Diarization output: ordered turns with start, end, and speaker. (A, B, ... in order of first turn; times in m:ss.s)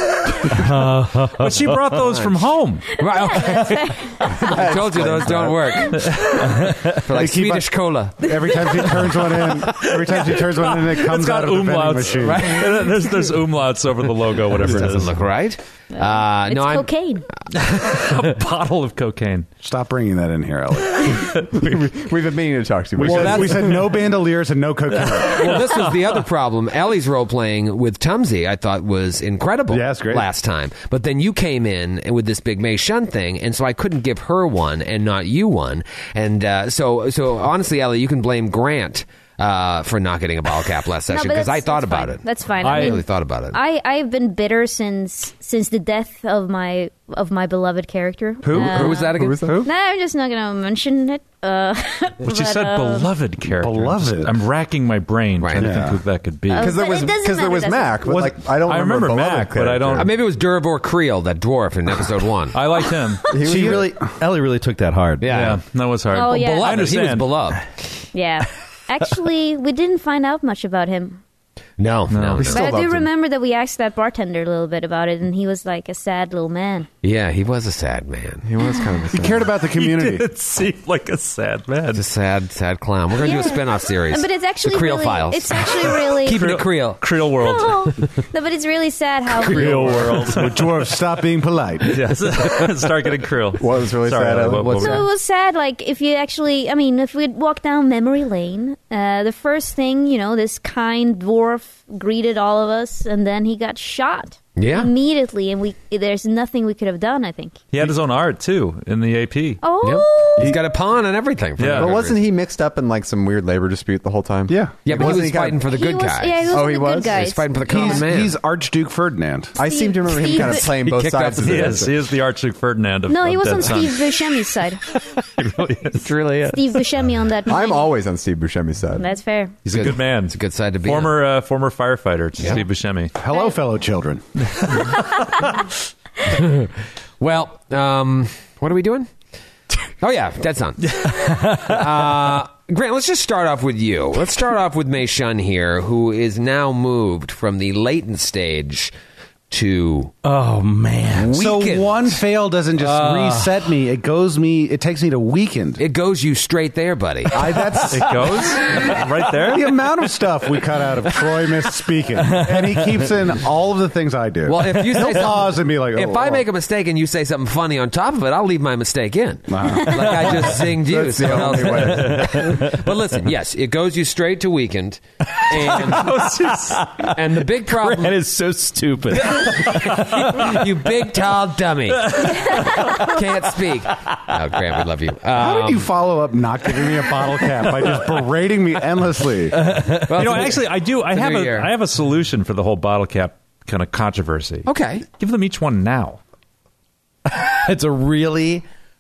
0:00.5-0:01.9 A
0:01.3-0:03.0 B
0:01.9-0:09.8 C
0:03.2-0:04.1 D
0:04.3-0:05.9 E
0:05.9-0:07.0 B
0:07.2-0:07.7 F
0:08.2-0:12.6 F
0:09.8-0:15.2 B
0:12.3-0:13.0 C
0:14.6-0:16.9 C
0:15.9-0:17.3 D
0:17.5-0:19.5 B
0:17.8-0:18.3 C
0:19.6-0:21.2 F
0:21.0-0:21.4 B
0:21.5-0:24.0 E
0:23.0-0:25.5 F
0:23.0-0:23.8 C
0:25.0-0:26.0 B
0:25.3-0:43.6 C
0:29.7-0:30.3 F
0:41.1-0:53.1 D
0:42.6-0:43.0 B
0:48.4-0:49.7 F
0:48.5-0:49.6 E
0:48.6-0:49.4 C
0:52.2-0:56.8 B
0:53.5-0:54.5 F
0:55.4-0:55.7 C
0:55.6-0:56.0 F
0:56.5-0:58.0 D
0:56.5-1:00.1 E
0:58.6-1:00.1 B
1:00.0-1:02.6 C
1:02.5-1:03.3 B
1:03.3-1:03.9 E
1:03.3-1:05.4 A
1:05.2-1:05.6 C
1:05.3-1:07.6 B
1:06.1-1:06.8 D
1:06.2-1:07.6 C
1:08.1-1:11.2 D
1:11.8-1:12.7 C
1:12.1-1:12.6 B
1:12.4-1:13.1 E
1:12.5-1:16.9 D
1:17.0-1:18.5 C
1:18.4-1:19.5 E
1:19.1-1:20.3 F
1:19.8-1:22.1 B
1:21.9-1:27.1 C
1:23.2-1:26.5 D
1:26.3-1:27.9 B
1:27.4-1:30.0 D
1:29.4-1:31.0 B
1:29.4-1:32.1 F
1:31.8-1:35.1 B
1:33.6-1:34.9 E
1:34.6-1:34.9 C
1:34.8-1:47.6 D
1:44.6-1:44.9 C
1:47.7-1:49.6 B
1:49.6-1:50.5 D
1:49.8-1:52.2 C
1:51.6-1:52.0 B
1:51.7-1:55.6 E
1:54.5-1:55.5 F
1:54.8-1:58.4 C
1:55.6-1:58.0 D
1:56.5-1:57.2 E
1:57.7-1:59.6 F
1:59.6-2:02.0 E
1:59.6-2:00.7 D
2:00.6-2:04.1 B
2:00.9-2:01.8 C
2:03.1-2:04.8 D
2:05.2-2:06.6 B
2:06.5-2:07.8 D
2:07.5-2:09.0 E
2:09.0-2:09.5 D
2:09.6-2:13.1 B
2:09.7-2:11.2 C
2:13.2-2:14.3 F
2:14.6-2:15.2 B
2:16.3-2:19.1 C
2:20.0-2:28.9 C
2:29.5-2:30.1 C
2:30.2-2:31.4 A
2:31.2-2:32.2 C
2:31.3-2:35.8 F
2:32.8-2:33.5 A
2:35.8-2:37.6 C
2:37.3-2:38.9 F
2:37.9-2:39.9 B
2:39.4-2:46.4 F
2:42.2-2:43.1 A
2:44.5-2:56.1 C
2:49.5-2:50.4 F
2:50.6-2:52.4 E
2:51.8-2:52.8 B
2:55.5-2:56.9 B
2:55.7-3:00.4 A
2:57.1-2:58.2 C
2:59.2-3:05.9 C
3:02.2-3:03.1 B
3:05.3-3:09.6 F
3:09.6-3:16.2 B
3:10.1-3:11.7 C
3:14.7-3:15.0 C
3:17.4-3:18.6 A